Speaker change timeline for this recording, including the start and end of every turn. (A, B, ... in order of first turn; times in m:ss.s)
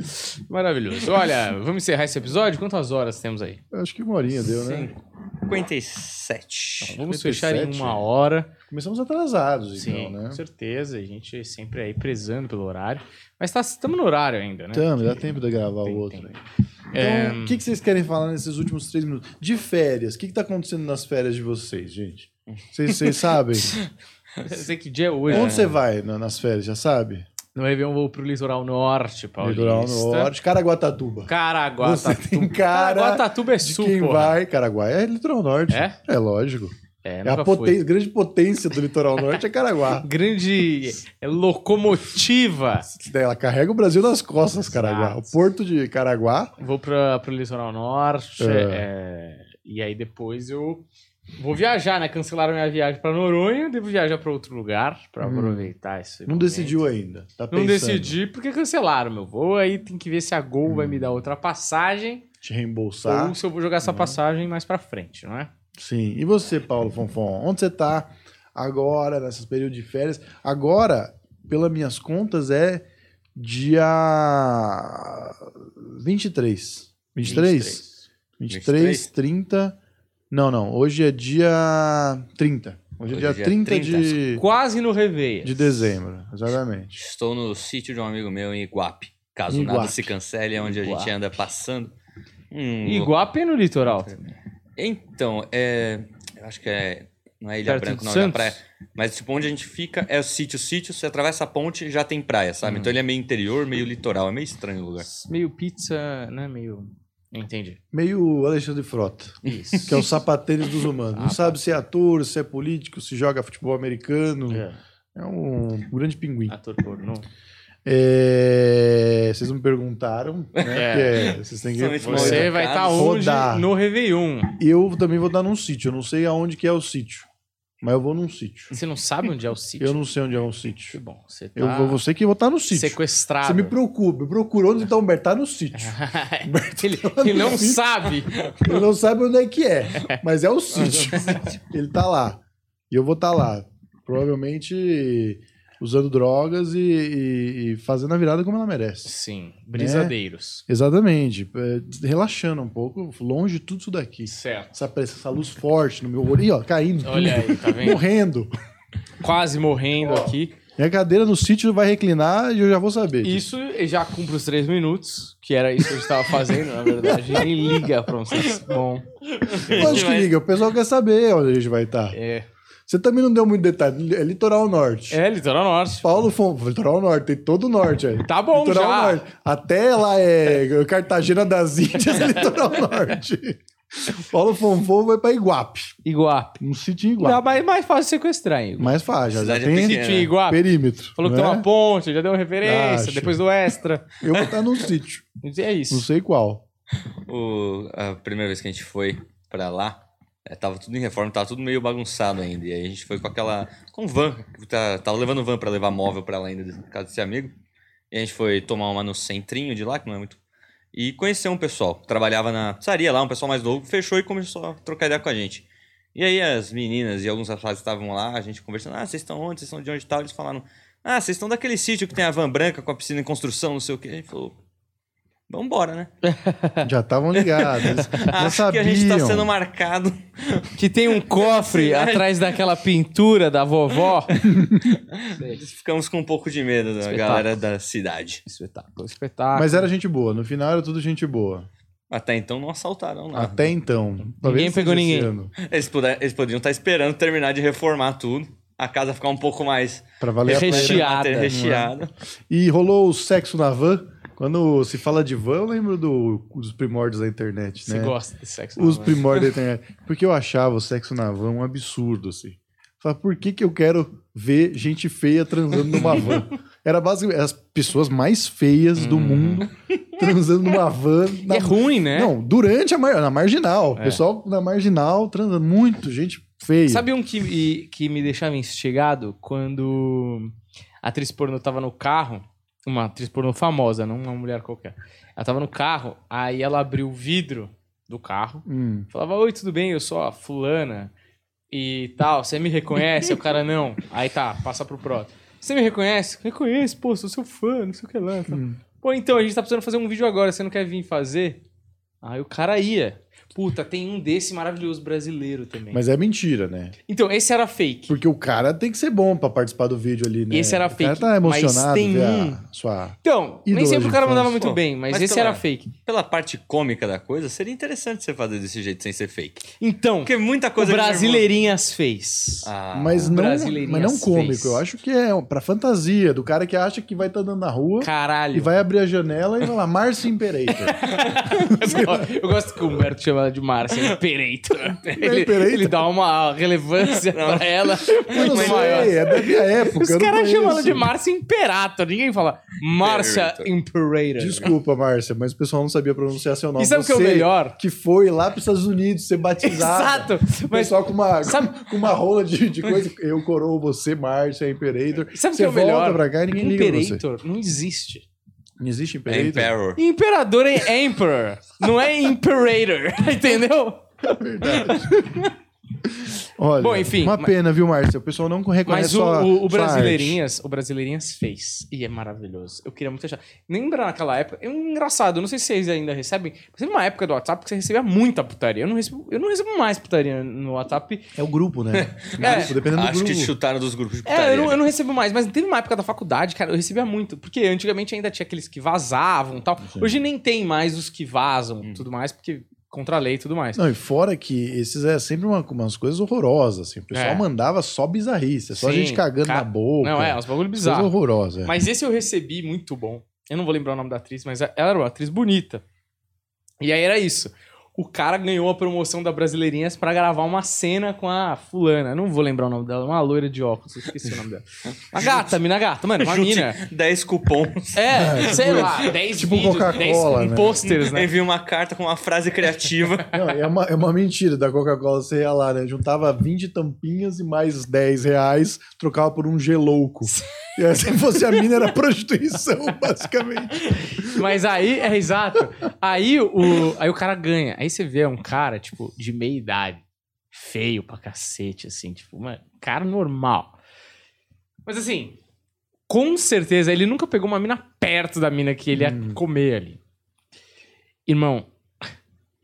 0:00.1-0:03.6 A
0:03.7-0:04.9 B
0:04.5-0:07.0 C
0:06.8-0:08.5 A
0:07.0-0:08.1 B
0:08.7-0:10.4 B
0:09.7-0:16.3 A
0:14.7-0:16.4 B
0:16.9-0:17.6 A
0:16.9-0:23.8 B
0:22.9-0:24.5 C
0:24.4-0:25.7 A
0:25.3-0:25.8 C
0:25.3-0:27.3 B
0:27.5-0:30.3 A
0:29.4-0:40.1 B
0:31.3-0:34.4 A
0:35.7-0:36.0 A
0:37.0-0:37.8 A
0:40.0-0:42.9 A
0:42.9-0:46.5 B
0:44.6-0:45.3 A
0:46.6-0:50.8 A
0:48.4-0:48.8 B
0:51.4-0:56.8 A
0:55.2-0:55.7 B
0:56.3-0:58.2 B
0:57.5-1:02.2 A
1:00.6-1:01.1 B
1:02.4-1:04.2 B
1:03.0-1:05.5 A
1:05.8-1:17.8 B
1:17.2-1:18.0 A
1:18.4-1:19.8 B
1:18.5-1:19.1 C
1:20.3-1:24.4 B
1:23.1-1:24.2 C
1:24.4-1:25.9 A
1:25.4-1:27.0 B
1:27.0-1:31.9 C
1:29.5-1:30.1 B
1:30.6-1:31.1 A
1:32.5-1:33.1 C
1:32.8-1:34.3 A
1:34.8-1:45.0 C
1:37.6-1:38.6 A
1:42.6-1:42.9 A
1:45.0-1:47.8 A
1:47.9-1:56.5 B
1:49.4-1:50.1 A
1:49.4-1:50.1 C
1:51.1-1:51.6 A
1:54.5-1:54.8 A
1:56.5-1:57.3 A
1:57.8-2:03.7 B
2:00.6-2:03.0 C
2:00.7-2:01.2 A
2:02.0-2:04.6 A
2:04.6-2:07.3 B
2:07.8-2:08.7 B
2:08.7-2:10.0 A
2:09.8-2:11.0 B
2:10.9-2:12.0 A
2:11.6-2:29.1 B
2:12.7-2:13.7 A
2:15.7-2:18.4 A
2:18.4-2:18.7 C
2:20.8-2:21.6 C
2:29.0-2:30.6 A
2:29.7-2:30.1 B
2:30.7-2:38.5 B
2:34.2-2:34.7 A
2:37.0-2:38.0 A
2:39.2-2:40.5 A
2:40.0-2:43.4 B
2:43.2-2:50.1 A
2:47.0-2:47.9 B
2:49.3-2:50.3 C
2:49.7-2:52.2 B
2:52.1-2:52.4 A
2:52.9-2:55.2 B
2:55.1-2:56.0 A
2:56.0-3:05.9 B
2:58.2-2:59.2 A
3:02.2-3:02.5 A
3:06.0-3:06.6 A
3:06.6-3:07.4 B
3:07.2-3:09.0 A
3:08.8-3:11.6 B
3:09.3-3:10.3 C
3:09.8-3:14.1 A
3:12.6-3:13.4 B
3:14.2-3:15.2 B
3:15.4-3:16.1 A
3:15.9-3:16.6 B
3:17.2-3:27.5 C
3:28.1-3:30.4 C
3:30.9-3:44.6 C
3:45.5-3:46.1 C
3:46.2-3:46.9 A
3:46.8-3:49.5 B
3:47.5-3:52.6 C
3:47.8-3:48.3 A
3:50.8-3:54.3 A
3:54.1-3:58.4 C
3:55.3-3:55.6 A
3:57.0-3:57.5 A
3:58.4-3:59.9 A
3:59.5-4:01.7 B
4:02.1-4:03.7 C
4:03.3-4:05.5 B
4:04.2-4:05.3 A
4:05.6-4:12.1 C
4:10.2-4:11.9 B
4:10.4-4:11.6 A
4:12.5-4:18.1 B
4:17.8-4:19.4 A
4:18.8-4:37.1 B
4:25.9-4:26.3 A
4:29.0-4:29.7 A
4:31.5-4:32.3 A
4:34.0-4:34.2 A
4:36.9-4:51.1 A
4:48.6-4:49.1 B
4:51.7-5:01.6 A
4:58.5-4:58.8 B
5:02.2-5:06.0 A
5:05.9-5:07.0 B
5:07.1-5:08.2 A
5:08.1-5:14.6 B
5:10.5-5:12.6 A
5:13.2-5:15.9 A
5:14.6-5:21.5 C
5:19.7-5:24.8 A
5:22.6-5:23.3 C
5:22.9-5:31.0 B
5:28.0-5:28.8 A
5:30.7-5:44.7 A
5:31.7-5:32.3 B
5:35.0-5:36.1 B
5:37.0-5:39.2 C
5:38.3-5:41.1 B
5:42.9-5:43.7 C
5:44.4-5:57.2 B
5:46.8-5:47.8 A
5:49.6-5:52.1 A
5:55.3-5:58.2 A
5:58.8-5:59.7 B
5:59.3-6:00.0 C
6:00.0-6:05.5 A
6:04.3-6:05.5 B
6:06.2-6:10.4 B
6:06.8-6:07.5 A
6:08.8-6:21.3 A
6:21.3-6:23.5 B
6:21.9-6:24.8 C
6:22.4-6:22.7 A
6:24.2-6:33.8 A
6:29.8-6:30.2 B
6:33.8-6:41.7 B
6:37.1-6:37.4 A
6:38.7-6:45.8 A
6:46.8-6:56.8 A
6:55.0-6:55.6 C
6:56.2-6:59.1 C
6:57.9-7:01.3 A
6:58.1-7:00.8 B
7:00.8-7:03.4 C
7:03.3-7:14.5 B
7:11.1-7:11.6 A
7:14.2-7:23.8 A
7:24.8-7:25.4 A
7:26.1-7:30.0 A
7:28.9-7:29.4 B
7:31.2-7:32.1 A